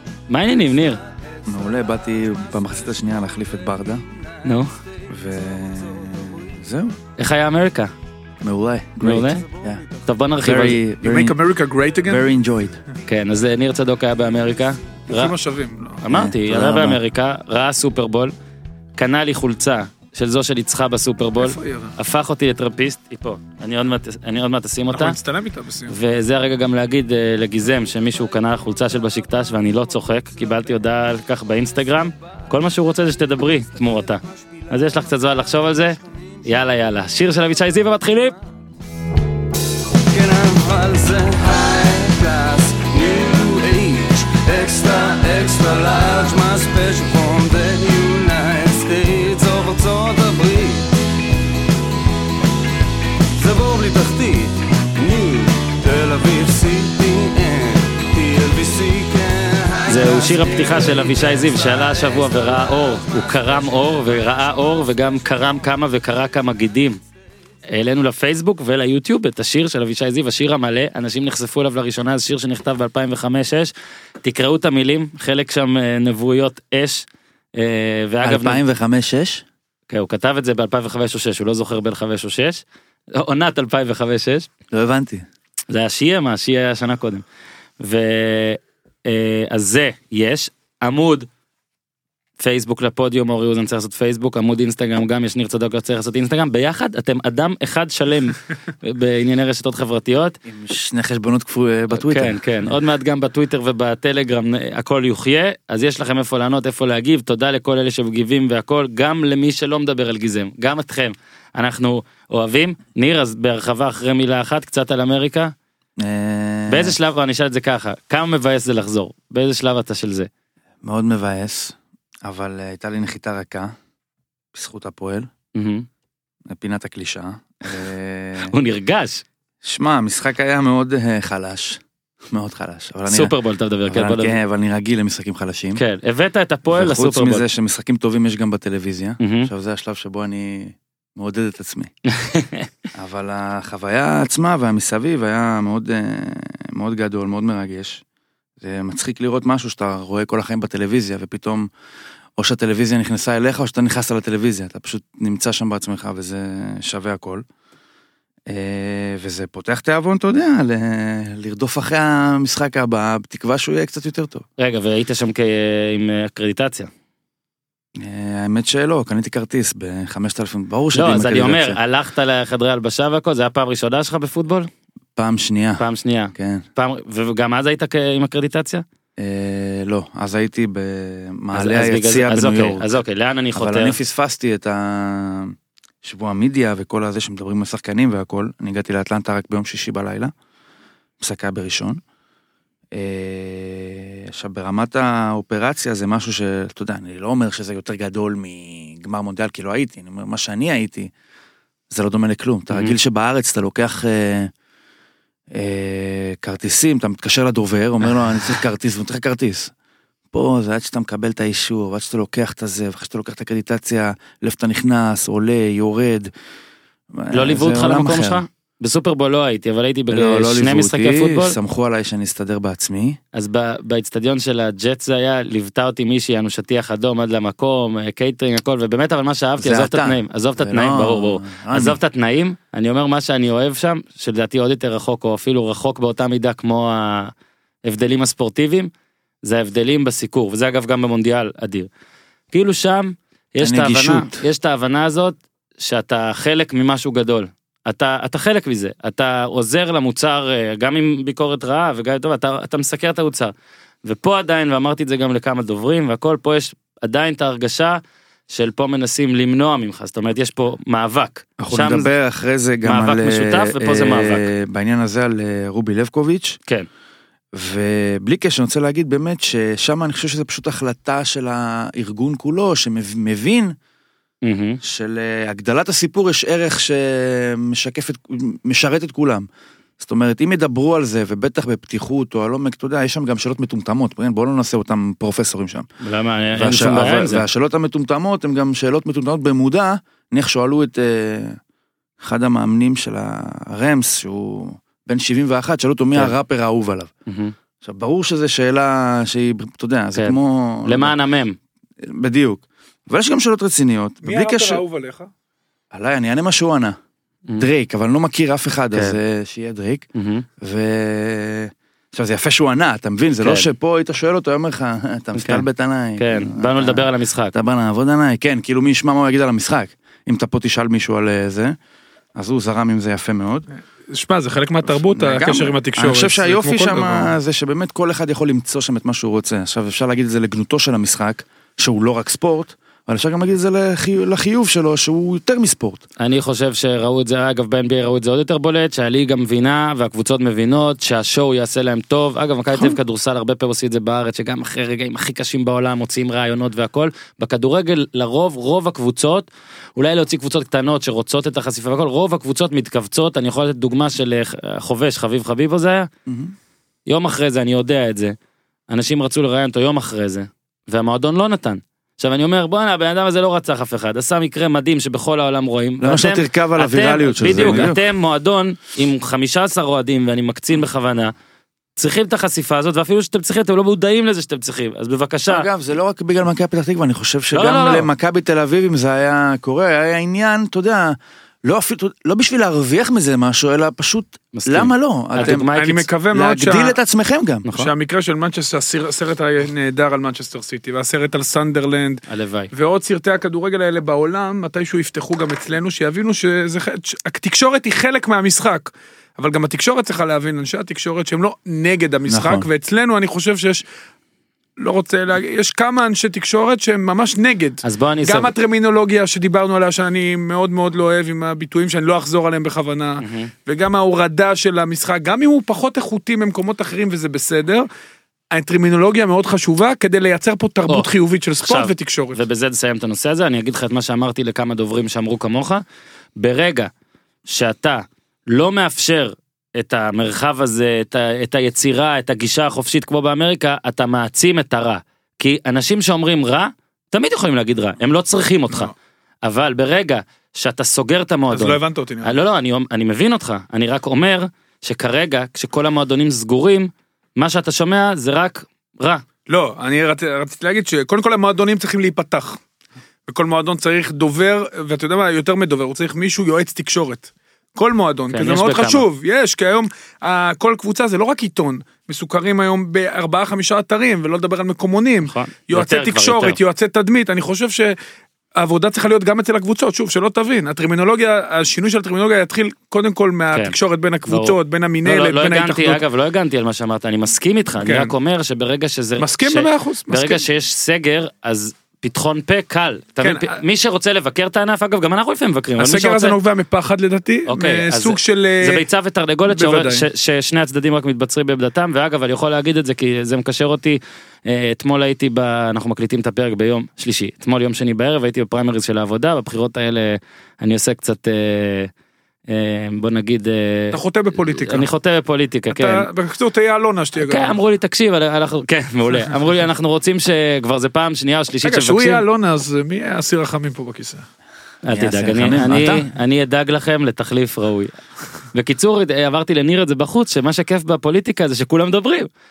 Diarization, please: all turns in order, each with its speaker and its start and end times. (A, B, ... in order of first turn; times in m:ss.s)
0:00.3-0:01.0 A
0:01.4-0:04.0 B
0:04.4-0:04.7 A
0:05.1-0:07.0 B
0:07.2-0:07.9 A
0:08.4-0:09.8 B
0:09.0-0:09.4 A
0:10.0-0:10.8 A
0:10.4-0:11.4 B
0:11.0-0:12.3 C
0:12.1-0:12.8 B
0:13.1-0:15.3 A
0:15.1-0:16.0 C
0:16.0-0:18.3 A
0:16.1-0:17.0 B
0:19.0-0:25.2 A
0:21.4-0:21.9 C
0:24.9-0:26.0 C
0:25.9-0:38.4 A
0:40.0-0:50.9 D
0:53.3-1:04.4 D
0:59.9-1:07.0 A
1:07.7-1:18.6 A
1:18.2-1:19.4 B
1:19.9-1:22.6 A
1:23.2-1:24.5 A
1:24.7-1:25.2 B
1:25.7-1:27.2 A
1:27.8-1:31.3 A
1:32.4-1:40.4 A
1:40.4-1:42.8 B
1:41.9-1:55.5 A
1:56.0-1:57.0 B
1:56.7-2:00.3 A
2:00.8-2:03.8 B
2:04.5-2:05.3 B
2:05.6-2:05.9 A
2:06.5-2:08.5 B
2:08.4-2:09.2 A
2:09.6-2:13.3 B
2:13.1-2:14.4 A
2:13.9-2:15.8 B
2:15.8-2:17.4 A
2:16.7-2:21.9 B
2:19.2-2:19.5 A
2:22.1-2:22.7 A
2:23.0-2:28.0 B
2:28.6-2:31.7 B
2:32.4-2:37.4 B
2:38.5-2:44.4 B
2:44.6-2:46.9 A
2:48.0-2:51.8 B
2:50.9-2:54.7 A
2:55.2-2:56.6 B
2:55.8-2:58.8 A
2:59.2-3:02.9 B
3:01.5-3:04.0 A
3:03.6-3:10.3 B
3:11.2-3:12.0 B
3:12.9-3:21.1 B
3:21.9-3:24.5 B
3:25.5-3:29.7 B
3:30.3-3:36.3 B
3:37.1-3:38.4 B
3:37.3-3:41.6 A
3:40.1-3:43.2 B
3:43.3-3:57.3 A
3:49.6-3:52.0 B
3:57.8-3:58.9 A
3:59.4-4:01.9 A
4:02.5-4:13.5 A
4:03.6-4:04.4 B
4:14.0-4:22.1 A
4:21.6-4:26.6 B
4:22.8-4:24.5 A
4:27.5-4:33.7 B
4:34.4-4:34.8 A
4:34.8-4:39.5 B
4:40.0-4:45.9 B
4:46.0-4:47.4 A
4:46.6-4:51.6 B
4:52.2-4:57.1 B
4:57.3-4:57.5 A
4:57.8-5:01.2 B
5:00.2-5:01.6 A
5:02.0-5:04.8 B
5:04.2-5:05.3 C
5:05.9-5:07.0 B
5:07.6-5:10.0 B
5:10.2-5:10.5 A
5:10.6-5:21.8 B
5:15.4-5:15.7 A
5:16.2-5:17.5 A
5:22.4-5:23.7 B
5:24.1-5:27.3 C
5:25.1-5:36.0 B
5:36.2-5:56.1 A
5:56.3-5:56.5 B
5:57.1-5:58.4 A
5:58.9-6:11.3 A
6:06.0-6:08.0 B
6:07.6-6:07.9 C
6:12.0-6:15.7 A
6:15.5-6:25.7 B
6:17.5-6:18.1 A
6:24.5-6:26.1 A
6:25.4-6:27.0 C
6:26.3-6:27.8 B
6:27.8-6:43.8 C
6:32.3-6:32.7 A
6:42.3-6:42.7 B
6:44.8-6:57.9 C
6:47.8-6:48.5 A
6:53.2-6:53.5 A
6:58.5-7:02.4 C
7:01.7-7:05.8 A
7:06.4-7:06.9 A
7:07.5-7:18.9 A
7:19.4-7:29.2 A
7:21.5-7:22.3 C
7:29.5-7:32.6 C
7:33.3-7:48.0 C
7:38.3-7:39.0 A
7:45.3-7:46.6 A
7:48.6-7:56.0 C
7:54.3-8:06.4 A
7:57.8-7:58.1 C
7:59.2-8:00.4 C
8:03.2-8:03.6 C
8:05.8-8:08.8 C
8:07.5-8:21.9 A
8:09.5-8:10.0 C
8:22.5-8:26.1 A
8:23.9-8:24.9 C
8:25.7-8:27.6 C
8:27.2-8:32.2 A
8:31.6-8:34.2 C
8:34.8-8:38.0 A
8:34.9-8:36.0 B
8:38.5-8:42.3 A